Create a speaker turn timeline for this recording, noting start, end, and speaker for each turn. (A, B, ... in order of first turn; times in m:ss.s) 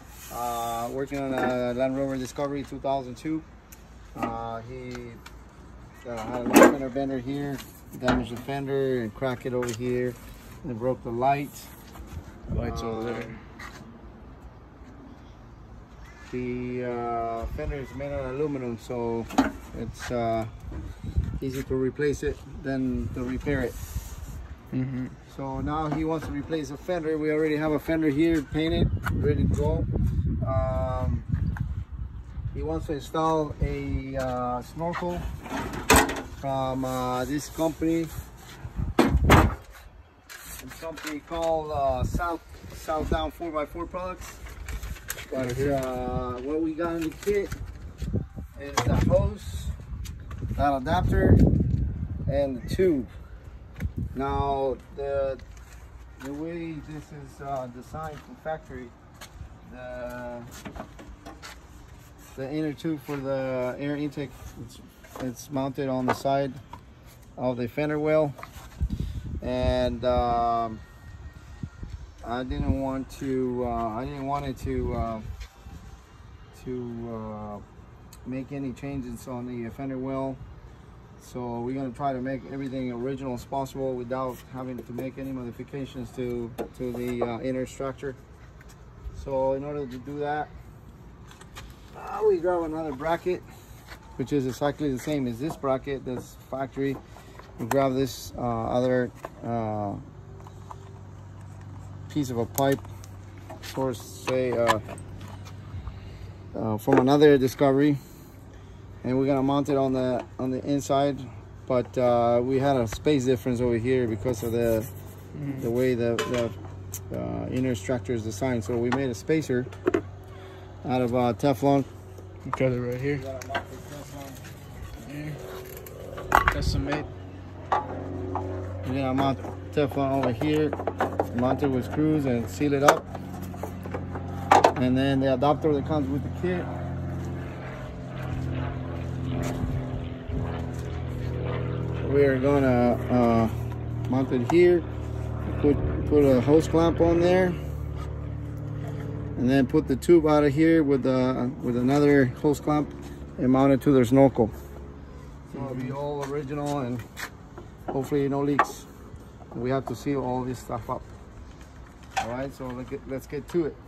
0:00.3-0:03.5 A
0:04.2-0:05.2 A
0:06.0-0:11.7 A
0:12.5-0:13.4 B
0:12.6-0:13.4 A
0:16.3-0:20.5 A
0:21.4-0:23.8 A
0:24.7-0:25.2 B
0:25.3-0:29.9 A
0:30.4-0:31.3 A
0:32.5-0:35.2 A
0:36.4-0:38.1 A
0:40.6-0:44.4 A
0:45.3-0:47.5 A
0:45.4-0:45.8 B
0:48.6-0:49.7 A
0:50.6-0:51.4 A
0:52.3-0:53.1 A
0:54.1-0:55.4 A
0:56.2-0:58.9 A
0:59.6-1:00.5 A
1:02.4-1:06.6 A
1:07.4-1:08.4 A
1:09.4-1:10.8 A
1:12.2-1:15.3 A
1:16.5-1:17.6 A
1:18.3-1:20.4 A
1:21.2-1:28.2 A
1:29.1-1:30.5 A
1:31.9-1:33.4 A
1:34.2-1:37.0 A
1:37.6-1:40.0 A
1:42.1-1:42.8 A
1:43.7-1:44.8 A
1:46.5-1:48.0 A
1:49.0-1:54.9 A
1:55.4-1:55.7 B
1:55.5-1:56.6 A
1:57.1-1:59.7 A
2:00.8-2:01.9 A
2:02.5-2:03.2 B
2:03.1-2:04.4 A
2:05.0-2:05.4 B
2:06.5-2:07.1 B
2:08.8-2:10.8 A
2:11.3-2:13.1 A
2:14.7-2:16.7 A
2:22.0-2:23.5 A
2:24.1-2:24.9 A
2:25.5-2:27.6 A
2:29.4-2:34.5 A
2:35.5-2:37.0 A
2:35.5-2:36.0 B
2:37.9-2:38.9 A
2:39.5-2:41.1 A
2:42.2-2:43.8 A